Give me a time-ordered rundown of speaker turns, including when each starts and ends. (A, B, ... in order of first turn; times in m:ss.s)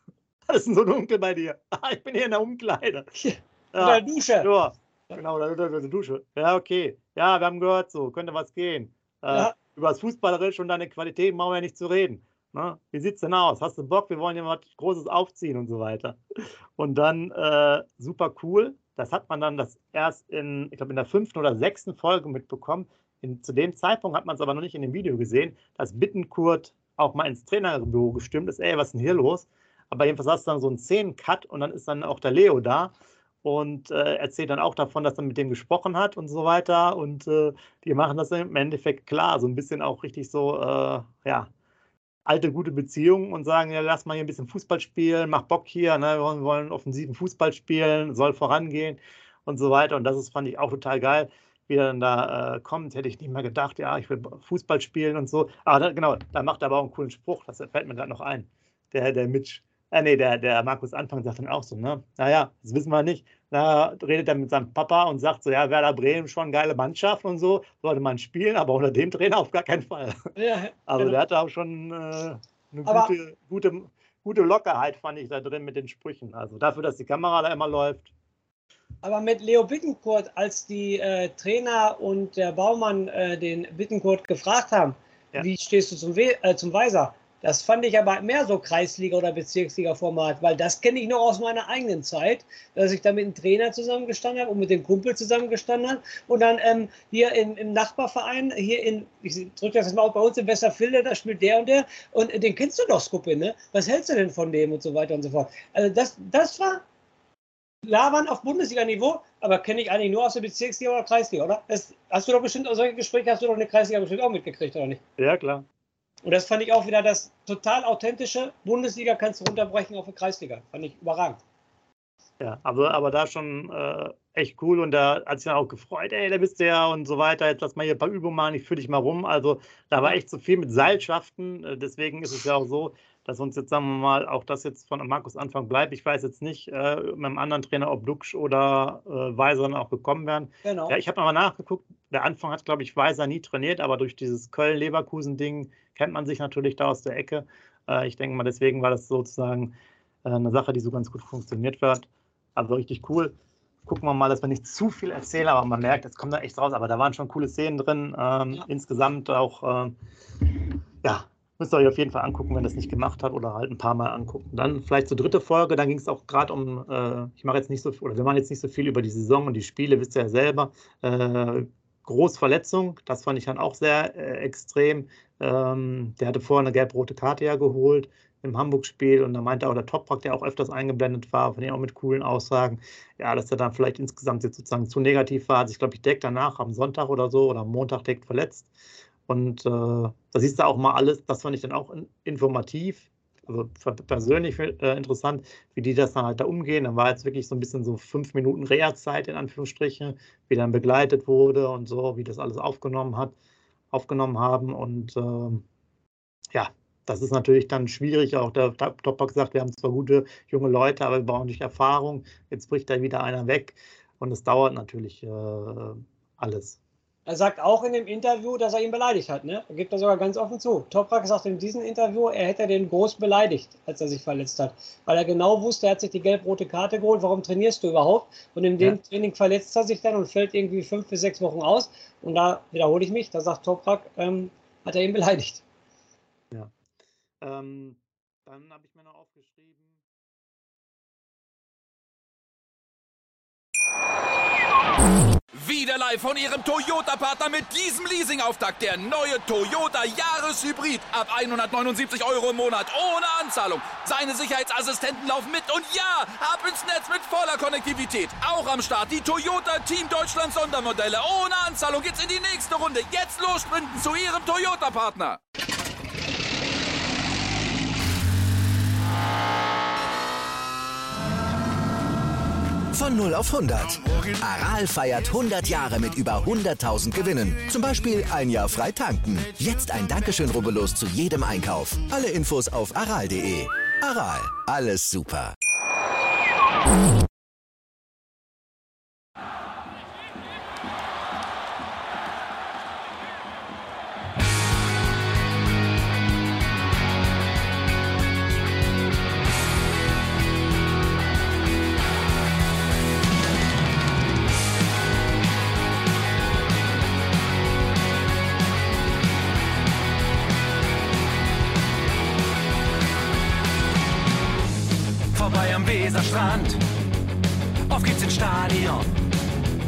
0:00.5-0:03.1 A
0:03.2-0:04.5 B
0:03.7-0:16.2 A
0:16.8-0:32.9 A
0:33.4-0:41.5 A
0:42.2-1:10.3 A
1:10.4-1:11.2 B
1:10.9-1:18.1 A
1:12.8-1:13.1 B
1:19.0-1:46.8 B
1:47.8-1:55.0 B
1:55.2-1:55.6 A
1:56.2-2:01.4 B
2:02.4-2:33.3 A
2:20.6-2:21.0 B
2:33.8-2:39.9 A
2:41.0-3:08.7 A
3:09.3-3:23.3 A
3:23.9-3:25.6 A
3:26.5-3:36.8 A
3:37.3-3:55.6 B
3:57.4-4:00.0 A
4:05.5-4:25.4 C
4:32.9-4:45.5 D
5:15.3-5:16.8 E
5:17.9-5:19.2 E